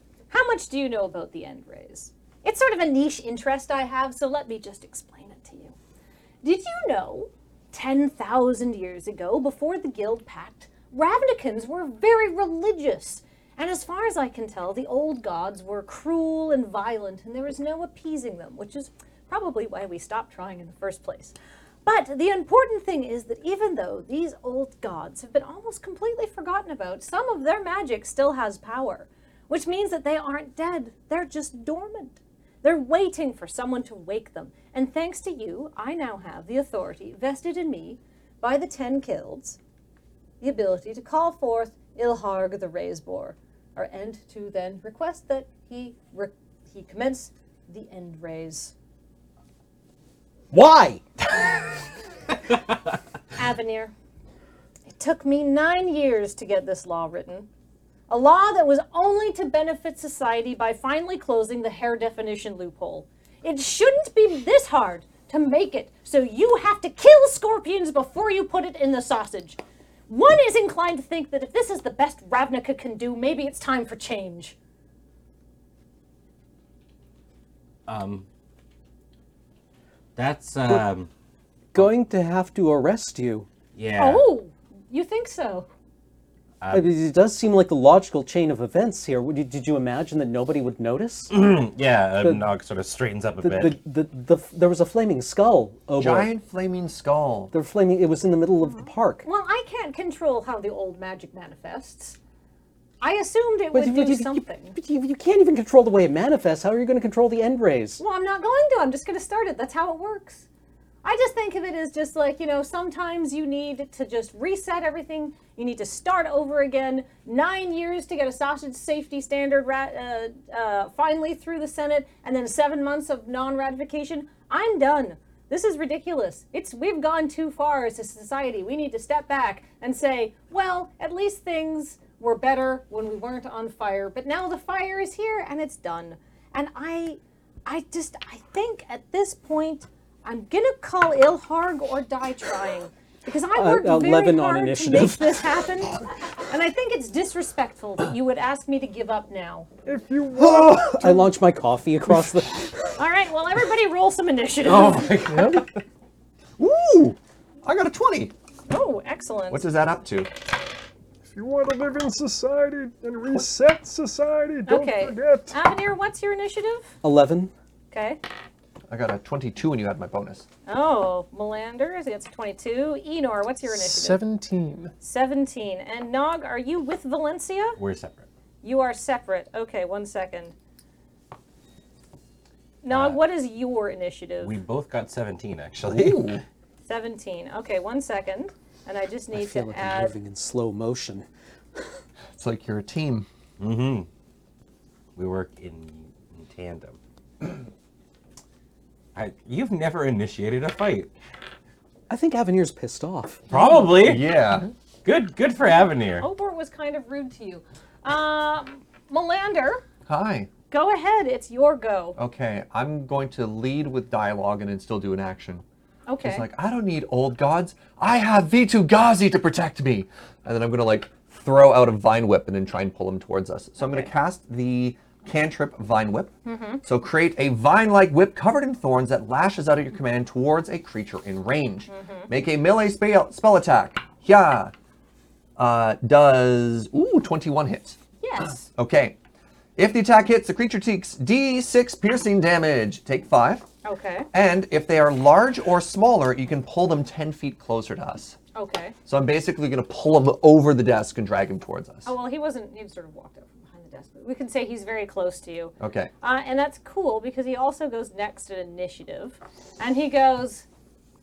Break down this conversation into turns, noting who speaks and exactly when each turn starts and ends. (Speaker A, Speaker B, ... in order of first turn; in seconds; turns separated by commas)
Speaker A: 0.3-5.7, Speaker A: 6.4-39.6, Speaker A: 40.4-48.7, Speaker B: 50.5-51.0, Speaker A: 53.4-53.9, Speaker A: 54.9-57.5, Speaker A: 58.1-69.6, Speaker A: 70.1-74.5, Speaker C: 77.9-78.2, Speaker C: 80.2-81.1, Speaker B: 81.7-83.5, Speaker C: 83.7-84.2, Speaker A: 84.0-85.7, Speaker C: 86.6-86.9, Speaker B: 86.7-91.3, Speaker C: 91.3-93.8, Speaker B: 93.4-96.3, Speaker D: 96.0-97.5, Speaker B: 97.5-99.2, Speaker A: 98.7-102.2, Speaker A: 103.0-104.8, Speaker B: 103.7-108.0, Speaker A: 108.0-110.4, Speaker A: 111.0-149.7, Speaker B: 143.6-145.4, Speaker E: 149.8-151.2, Speaker B: 150.4-152.7, Speaker A: 153.0-155.2, Speaker C: 154.6-155.7, Speaker E: 155.3-155.6, Speaker D: 156.6-158.3, Speaker A: 158.7-159.7, Speaker D: 159.5-160.3, Speaker E: 161.2-165.6, Speaker A: 164.7-166.9, Speaker B: 167.0-167.5, Speaker A: 167.9-168.2, Speaker D: 168.9-170.4, Speaker A: 170.7-174.2, Speaker E: 173.7-174.9, Speaker A: 175.0-177.8, Speaker C: 177.8-178.2, Speaker A: 178.6-180.5, Speaker A: 182.8-184.5, Speaker C: 182.9-183.2, Speaker C: 184.4-186.3, Speaker D: 185.8-186.4, Speaker A: 186.8-190.1, Speaker B: 189.3-191.2, Speaker D: 192.3-193.3, Speaker C: 193.6-194.1, Speaker C: 195.2-197.0, Speaker C: 199.1-201.1, Speaker B: 202.1-203.4, Speaker C: 203.5-204.2, Speaker D: 203.9-204.7, Speaker C: 205.0-206.2, Speaker A: 206.2-209.8, Speaker D: 210.1-210.5, Speaker A: 210.7-212.2, Speaker D: 212.2-215.6, Speaker A: 216.1-216.5, Speaker D: 216.2-226.3, Speaker A: 223.8-224.1, Speaker A: 226.4-226.8, Speaker D: 226.8-234.7, Speaker A: 231.9-232.3, Speaker D: 235.6-238.0, Speaker A: 238.2-238.7, Speaker D: 238.7-239.2, Speaker D: 239.8-243.7, Speaker A: 243.8-244.3, Speaker D: 244.3-248.4, Speaker A: 248.5-248.9, Speaker D: 249.1-252.1, Speaker A: 252.1-260.6, Speaker D: 255.8-256.1